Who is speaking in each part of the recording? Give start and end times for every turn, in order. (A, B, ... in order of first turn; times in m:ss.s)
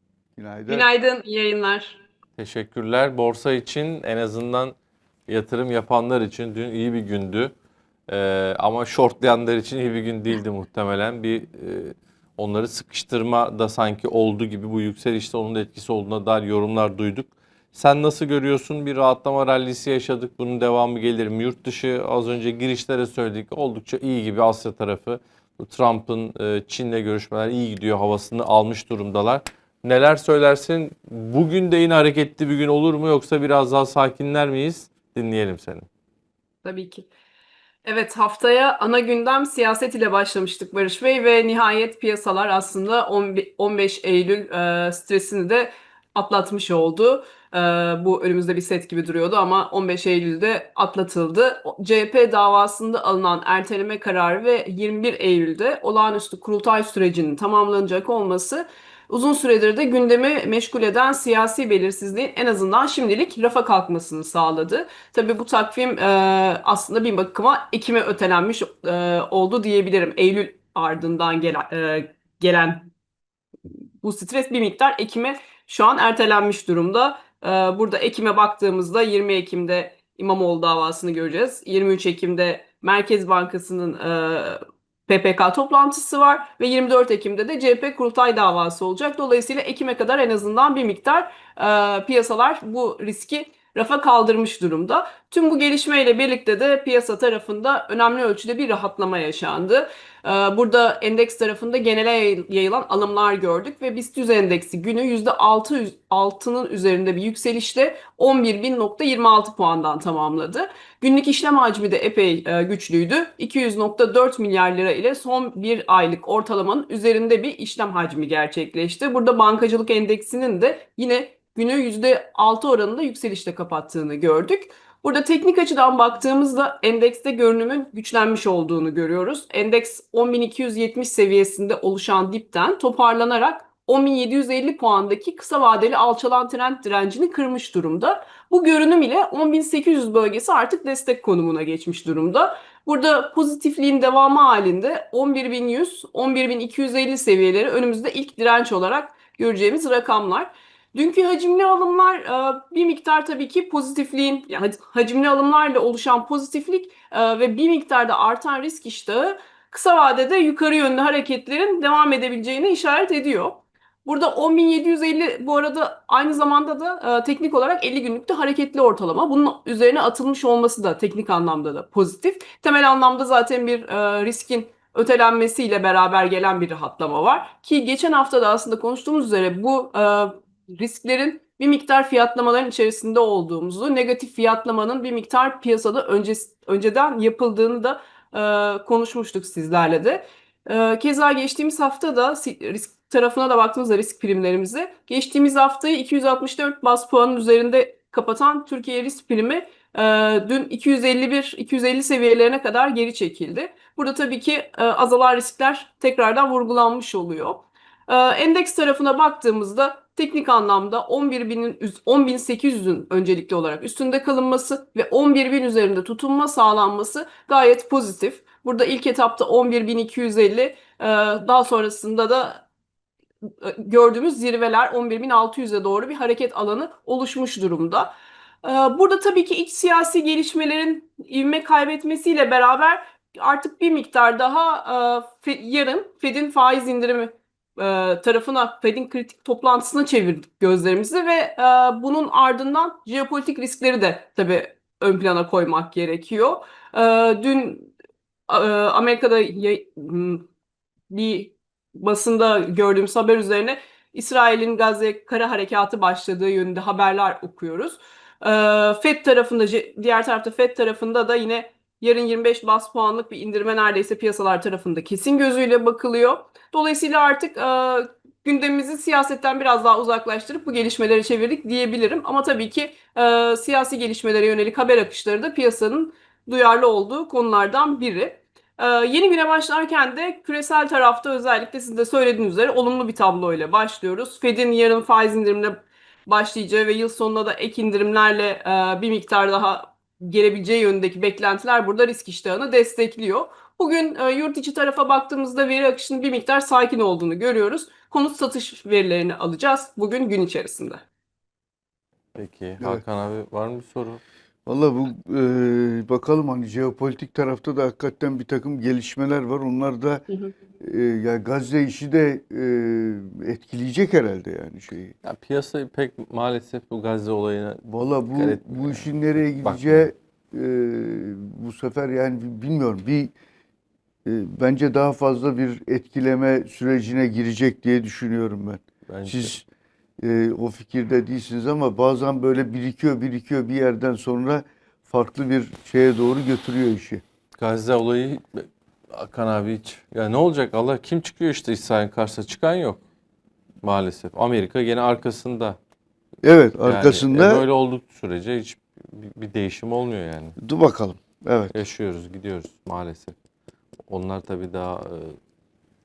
0:00.4-0:00.9 A
0:00.7-0:02.0 B
0:02.4-0:04.7 C
0:05.3-0:07.5 C
0:08.1-0:35.9 C
0:36.6-0:37.1 B
0:37.8-1:12.9 B
1:14.0-3:42.6 B
3:43.5-4:07.9 B
4:08.5-4:10.5 B
4:11.1-5:01.0 B
5:02.3-5:04.2 C
5:04.6-5:10.2 A
5:10.8-5:15.1 A
5:15.2-5:19.1 C
5:17.8-5:23.3 A
5:19.6-5:20.1 C
5:24.2-5:29.6 A
5:29.1-5:29.5 C
5:30.2-5:37.2 A
5:37.6-5:43.0 C
5:43.8-5:45.8 C
5:46.4-5:47.6 A
5:46.8-5:50.6 C
5:50.6-5:51.7 A
5:51.7-5:53.3 C
5:54.1-5:55.4 C